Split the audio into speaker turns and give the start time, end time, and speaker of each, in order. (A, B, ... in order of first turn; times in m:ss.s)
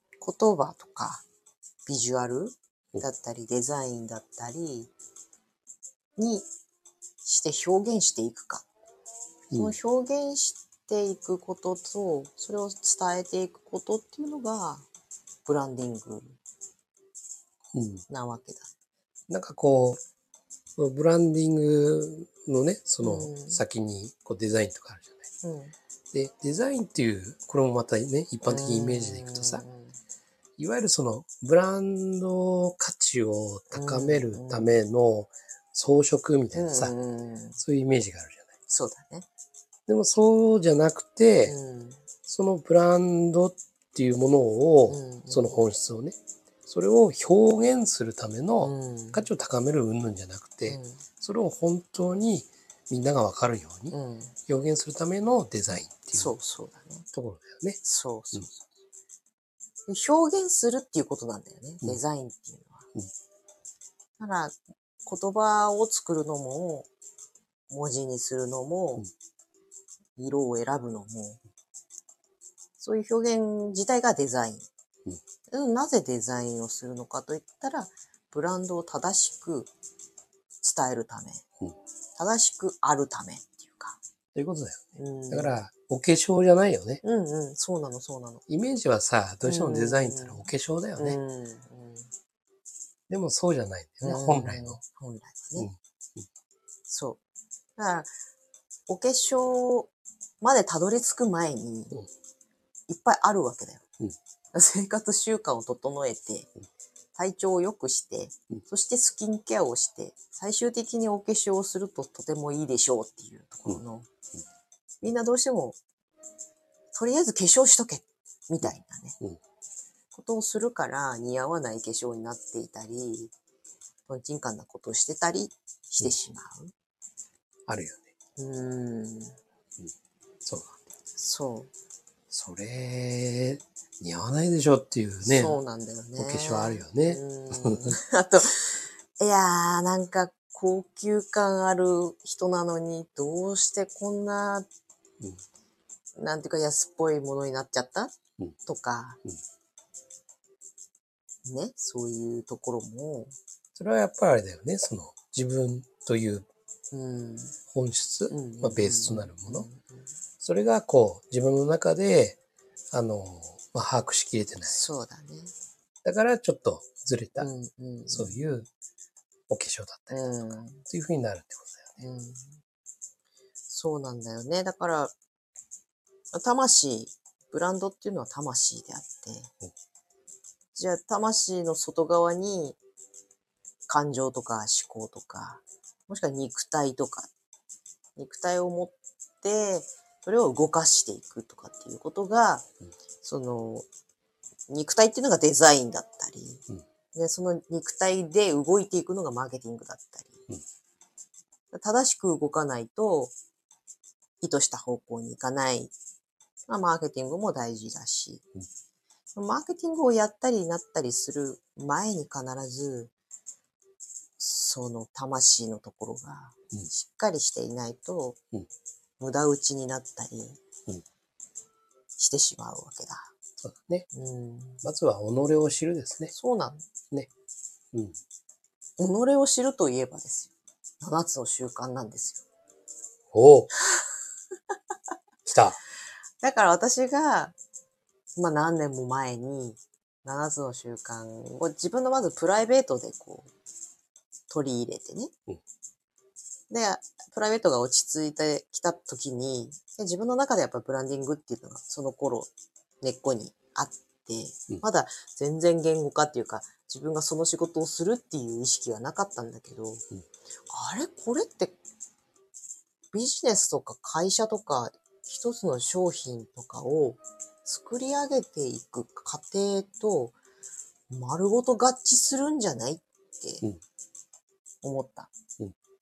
0:00.2-0:01.2 A
0:01.9-0:04.9 A
0:06.2-0:06.5 A
0:07.2-0:08.7 A
0:09.5-0:09.8 B
0:09.5-0:14.9 A
0:15.4-0:16.4 A
0:17.7-0:18.0 B
0:18.1-0:18.7 A
0:19.3-0:20.0 B
0:20.8-0:25.2 B
0:23.0-0:23.6 A
0:25.4-0:25.7 A
0:26.1-0:29.6 B
0:28.4-0:30.0 A
0:30.6-0:36.9 B
0:33.7-0:34.8 A
0:36.5-0:37.6 A
0:37.6-0:38.5 B
0:38.7-0:39.3 A
0:39.9-0:41.6 B
0:41.5-0:42.0 A
0:42.3-0:53.9 B
0:44.9-0:45.6 A
0:48.6-0:49.3 A
0:50.7-0:51.0 A
0:53.9-0:54.4 A
0:54.5-0:56.3 B
0:56.1-0:57.1 A
0:57.1-0:57.8 B
0:57.8-0:58.7 A
0:59.9-1:02.9 A
1:04.2-1:06.9 A
1:07.7-1:09.1 A
1:10.2-1:11.4 A
1:12.8-1:14.7 A
1:15.5-1:19.7 A
1:20.6-1:21.4 A
1:22.2-1:24.0 A
1:24.4-1:27.0 B
1:25.0-1:25.6 A
1:27.0-1:28.4 A
1:28.5-1:31.2 B
1:29.4-1:30.5 A
1:31.0-1:32.1 A
1:33.1-1:34.8 B
1:34.0-1:35.7 A
1:35.6-1:36.2 B
1:36.9-1:37.2 A
1:37.8-1:38.1 A
1:38.9-1:42.0 A
1:42.9-1:43.8 A
1:44.5-1:46.5 A
1:47.2-1:54.1 A
1:55.0-1:55.8 A
1:56.9-1:59.2 A
2:00.1-2:03.3 A
2:04.1-2:06.7 A
2:07.7-2:08.1 B
2:08.4-2:09.4 A
2:10.4-2:10.8 B
2:11.2-2:11.7 A
2:12.3-2:15.6 B
2:15.2-2:24.7 A
2:16.2-2:18.0 B
2:26.2-2:28.1 A
2:28.6-2:29.2 A
2:31.4-2:33.4 A
2:33.8-2:36.5 B
2:36.9-2:37.6 A
2:37.7-2:39.7 B
2:38.3-2:40.1 A
2:40.4-2:42.4 B
2:42.9-2:44.8 B
2:44.6-2:45.5 A
2:46.0-2:47.5 B
2:47.4-2:48.4 A
2:48.1-2:48.7 B
2:49.5-2:52.0 B
2:50.1-2:50.8 A
2:52.0-2:52.6 A
2:53.7-2:55.1 A
2:56.3-2:59.5 A
3:00.7-3:02.8 A
3:03.9-3:07.3 A
3:08.2-3:12.7 A
3:13.2-3:13.9 A
3:14.7-3:20.5 A
3:21.7-3:23.3 A
3:24.4-3:25.9 A
3:26.7-3:28.5 A
3:29.4-3:33.1 A
3:34.4-3:38.4 A
3:39.2-3:40.6 A
3:42.2-3:43.3 A
3:43.6-3:44.1 B
3:44.1-3:44.8 A
3:44.8-3:46.3 B
3:46.3-3:46.8 A
3:49.0-3:52.4 A
3:53.3-3:53.7 B
3:55.5-3:55.8 B
3:56.4-3:57.6 A
3:58.4-4:03.5 A
4:04.5-4:05.3 A
4:06.7-4:20.0 A
4:20.7-4:21.8 A
4:23.1-4:30.4 A
4:31.1-4:33.7 A
4:34.8-4:35.3 A